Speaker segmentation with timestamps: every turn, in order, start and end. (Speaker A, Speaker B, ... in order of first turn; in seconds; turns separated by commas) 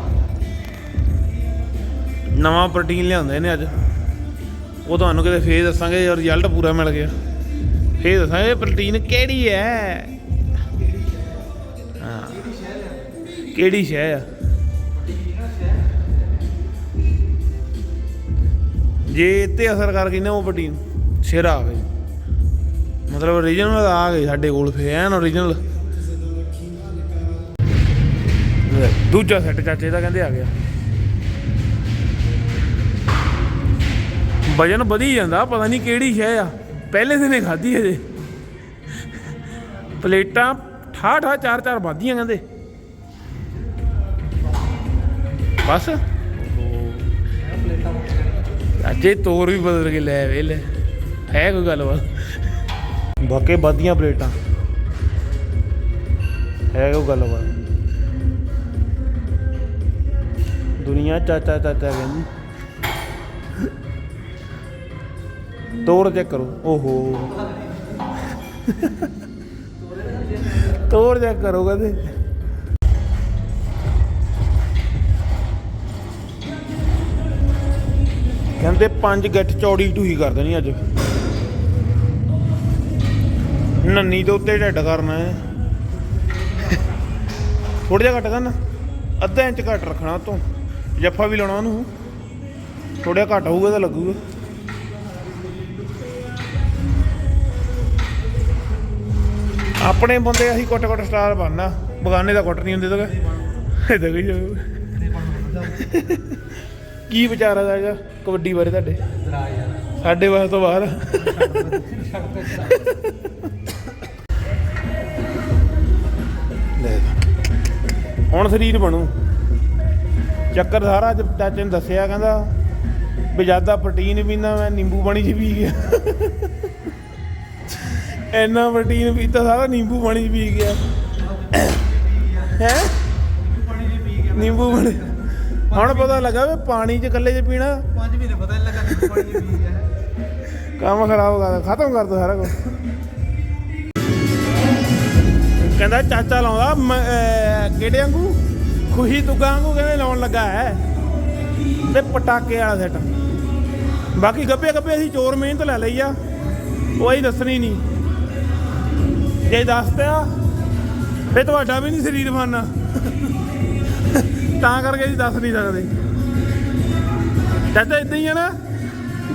Speaker A: 2.3-3.8, Speaker A: 4.8-7.1, Speaker A: 8.0-10.1, Speaker A: 12.0-12.5, Speaker A: 13.5-14.3, Speaker B: 15.2-15.5, Speaker A: 19.1-21.9, Speaker A: 23.1-25.6, Speaker A: 28.7-30.5, Speaker A: 34.5-38.0, Speaker A: 40.0-42.4, Speaker A: 45.6-47.1, Speaker B: 47.5-48.2, Speaker A: 48.8-50.7, Speaker A: 51.3-52.2, Speaker A: 53.2-54.3, Speaker A: 56.7-57.5, Speaker A: 60.8-62.3, Speaker A: 65.8-67.4, Speaker A: 68.7-69.0, Speaker A: 70.6-72.1, Speaker A: 78.6-80.8, Speaker A: 83.8-85.4, Speaker A: 87.9-88.6, Speaker A: 89.2-90.4, Speaker A: 91.0-91.9, Speaker A: 93.0-94.2, Speaker A: 99.8-103.2, Speaker A: 103.7-104.8, Speaker B: 105.1-105.8, Speaker A: 105.8-106.2, Speaker A: 107.1-109.0, Speaker B: 109.3-109.8, Speaker A: 110.0-111.5, Speaker B: 111.3-112.8, Speaker A: 116.8-117.1, Speaker A: 118.3-119.1, Speaker A: 120.5-122.5, Speaker A: 123.3-126.5, Speaker A: 128.2-130.8, Speaker A: 131.5-131.8, Speaker B: 131.6-132.5, Speaker A: 132.4-133.0, Speaker B: 133.5-135.0, Speaker A: 134.3-135.1, Speaker A: 135.7-137.9, Speaker B: 135.7-136.1, Speaker B: 137.9-139.9, Speaker A: 140.8-142.6, Speaker A: 145.6-150.8, Speaker A: 151.9-153.1, Speaker A: 154.1-156.2, Speaker A: 157.0-157.8, Speaker A: 159.5-160.3, Speaker A: 161.3-163.3, Speaker A: 164.1-165.9, Speaker A: 167.7-168.5